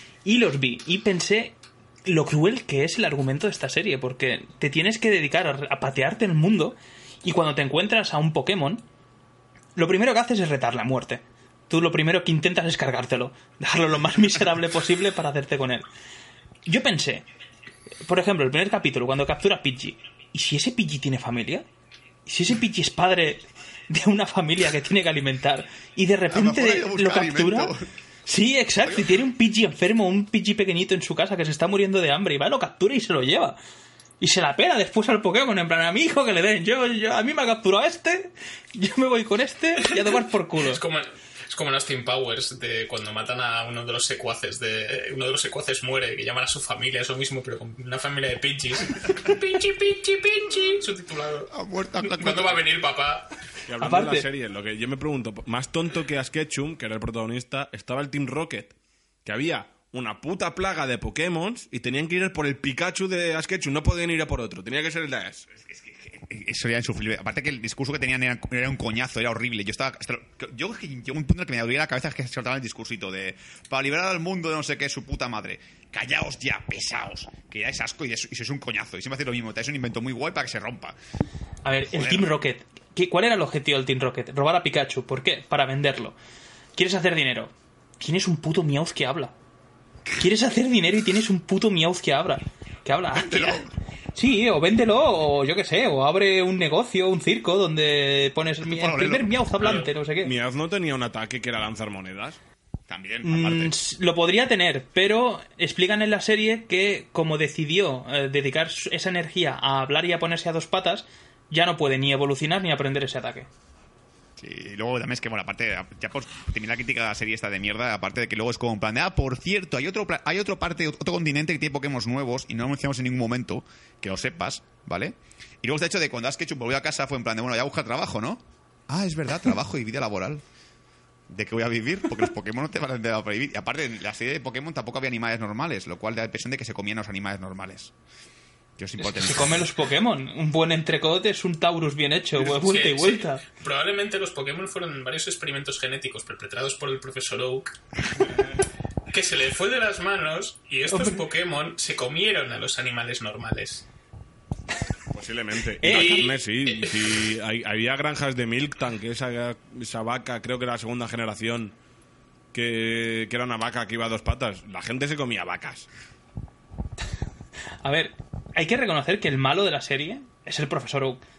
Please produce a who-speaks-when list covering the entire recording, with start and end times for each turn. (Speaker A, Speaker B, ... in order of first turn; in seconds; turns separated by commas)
Speaker A: 0.2-1.5, Speaker A: 2.0-8.8, Speaker A: 9.8-15.8, Speaker A: 16.6-17.2, Speaker A: 18.1-21.6, Speaker A: 22.2-27.7, Speaker B: 26.3-27.8, Speaker A: 28.2-33.6, Speaker B: 28.8-29.2, Speaker A: 34.2-40.8, Speaker C: 40.0-51.5, Speaker B: 51.5-52.6, Speaker C: 52.0-53.3, Speaker D: 53.7-58.7, Speaker A: 53.8-54.2, Speaker D: 59.2-65.5, Speaker B: 65.5-81.0, Speaker A: 81.6-86.2, Speaker B: 81.8-82.3, Speaker A: 86.8-89.3, Speaker A: 90.2-100.3, Speaker B: 93.1-93.7, Speaker B: 98.6-99.3, Speaker C: 99.6-99.9, Speaker D: 100.2-102.4, Speaker B: 102.9-103.8, Speaker A: 103.2-113.5, Speaker B: 114.4-130.4, Speaker B: 131.3-137.9, Speaker B: 138.8-139.7, Speaker A: 139.2-143.4, Speaker C: 142.4-147.8, Speaker C: 149.1-153.8, Speaker A: 150.9-151.2, Speaker D: 155.1-161.7, Speaker A: 155.8-156.3, Speaker C: 155.9-157.2, Speaker D: 162.5-165.9, Speaker A: 167.8-171.2